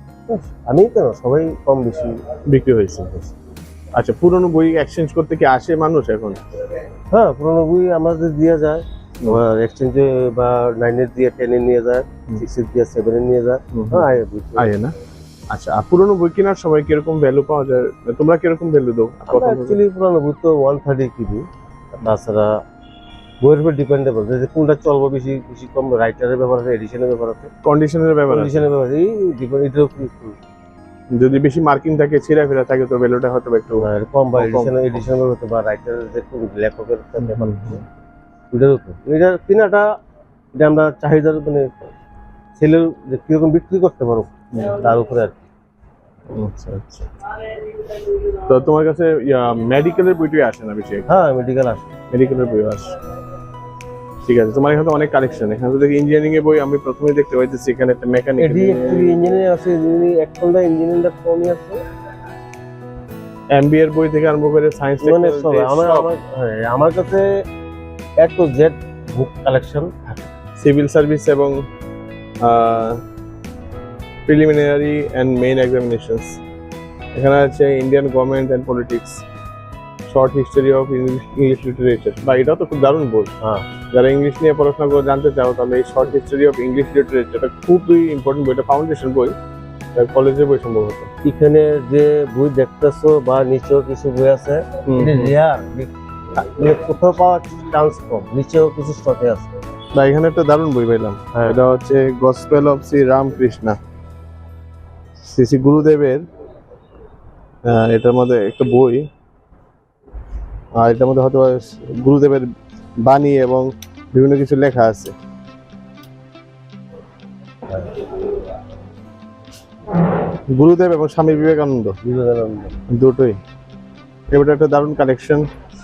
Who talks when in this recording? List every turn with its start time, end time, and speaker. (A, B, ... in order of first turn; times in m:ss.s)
0:00.3-0:02.2 A
0:02.5-0:03.3 B
0:03.9-0:06.4 B
0:07.1-0:14.8 A
0:13.7-0:14.9 B
0:15.5-0:19.8 B
0:19.3-0:22.6 A
0:23.4-0:27.5 A
0:27.6-0:28.6 B
0:28.3-0:30.4 A
0:31.1-0:35.0 B
0:33.8-0:37.8 A
0:37.2-0:37.8 B
0:38.5-0:39.9 A
0:40.5-0:41.9 A
0:42.6-0:45.4 A
0:44.5-0:44.8 B
0:46.3-0:47.1 B
0:48.4-0:51.1 B
0:51.1-0:51.8 A
0:52.1-0:52.9 B
0:54.2-0:59.1 B
0:58.4-1:01.8 A
1:03.5-1:06.1 B
1:05.0-1:07.3 A
1:08.2-1:10.3 A
1:10.6-1:11.5 B
1:12.4-1:13.0 B
1:14.3-1:16.4 B
1:17.1-1:19.2 B
1:20.1-1:23.3 B
1:23.9-1:29.3 B
1:30.0-1:31.1 B
1:31.2-1:39.5 A
1:34.8-1:35.3 B
1:39.9-1:43.8 B
1:45.2-1:46.2 B
1:47.6-1:49.1 B
1:50.8-1:55.1 B
2:00.5-2:02.0 B
2:02.0-2:02.8 A
2:02.9-2:03.4 B
2:04.3-2:05.5 B